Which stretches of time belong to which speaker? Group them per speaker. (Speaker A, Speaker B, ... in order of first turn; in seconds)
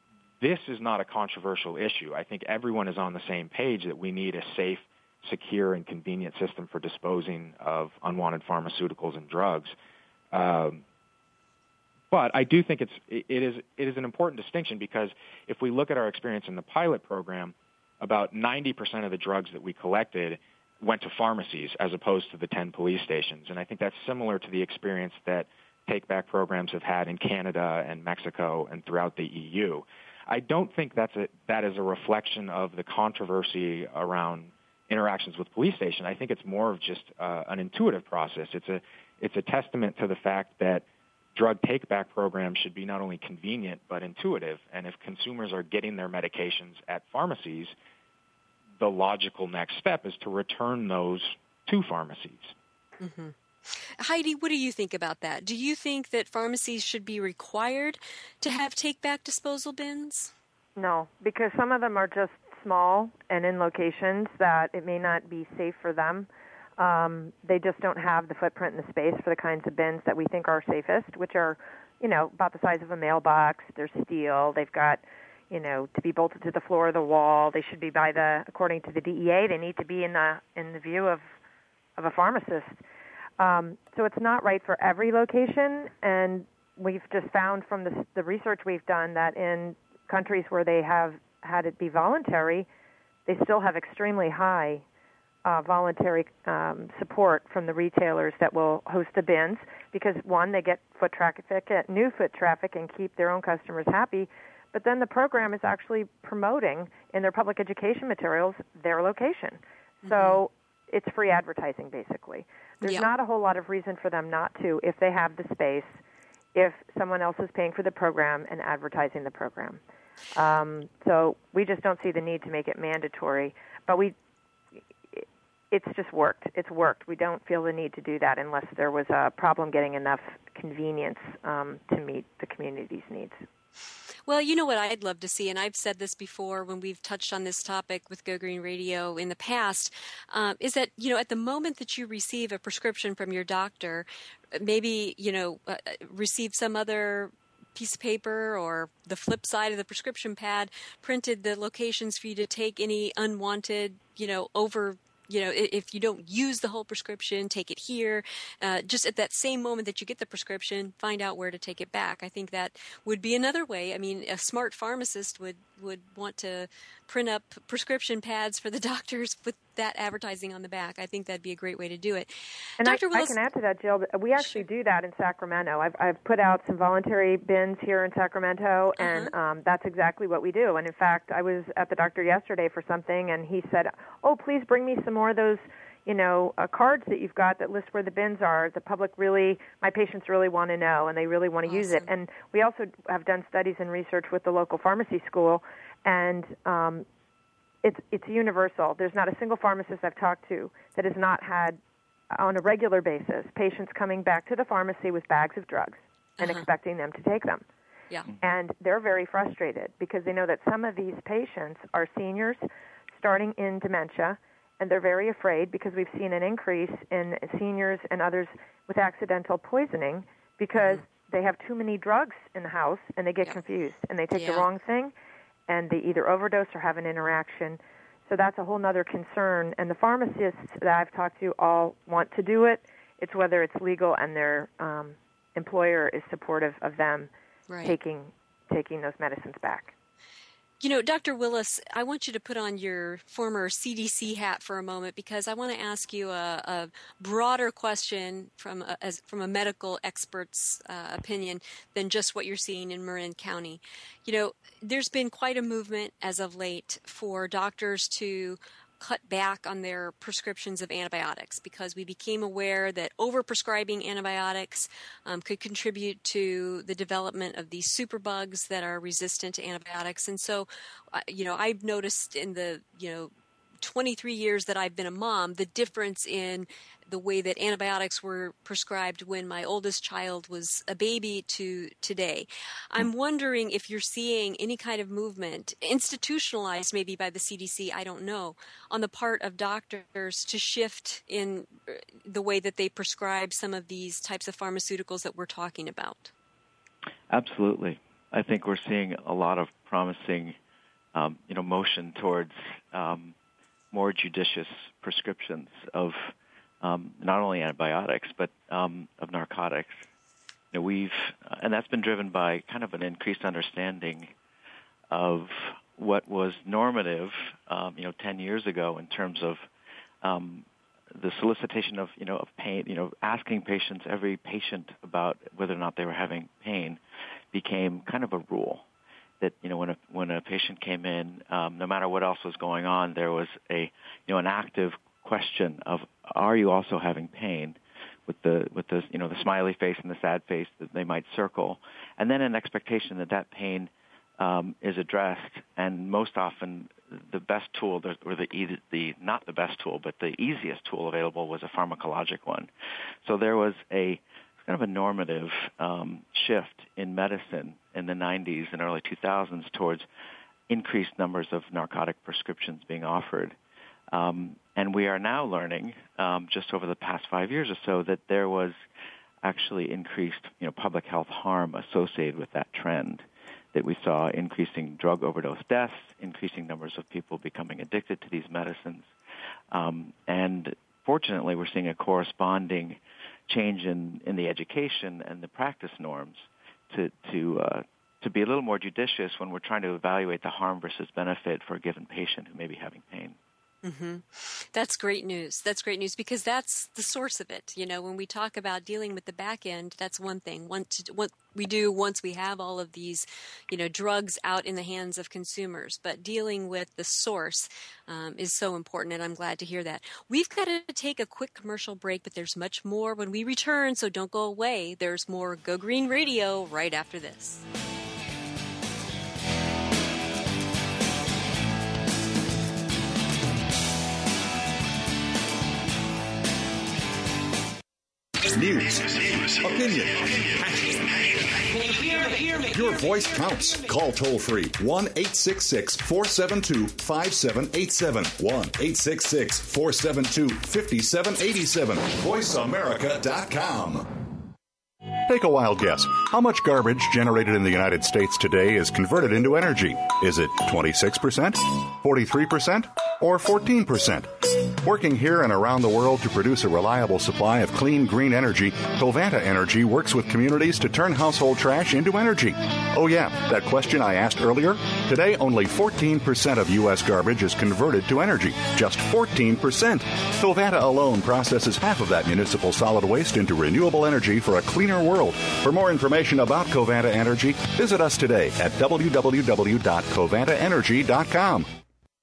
Speaker A: 0.4-9.8, 10.3-10.8, 12.1-40.8, 41.4-47.8, 48.8-52.5
Speaker B: 53.0-60.3, 110.0-110.4, 134.3-173.3, 179.0-179.3, 191.7-192.1, 206.4-206.7, 224.3-224.7, 237.7-238.0, 240.8-273.3, 273.8-296.3, 393.8-417.6
Speaker C: 60.8-81.2, 82.0-82.8, 83.4-92.7, 93.3-94.8, 95.5-116.0, 116.5-119.8, 120.3-124.2, 125.1-133.4, 172.8-197.1, 197.8-201.8, 202.3-207.7, 208.4-212.7, 213.2-225.1, 225.7-237.3, 237.8-239.9
Speaker D: 297.3-300.6, 301.1-303.4, 303.9-310.0, 310.7-314.3, 315.1-319.6, 320.2-327.0, 327.5-328.8, 329.4-352.7, 353.2-360.1, 360.7-363.6, 364.1-368.8, 369.4-379.1, 379.7-393.4
Speaker E: 428.5-431.0, 432.6-444.3, 445.3-481.7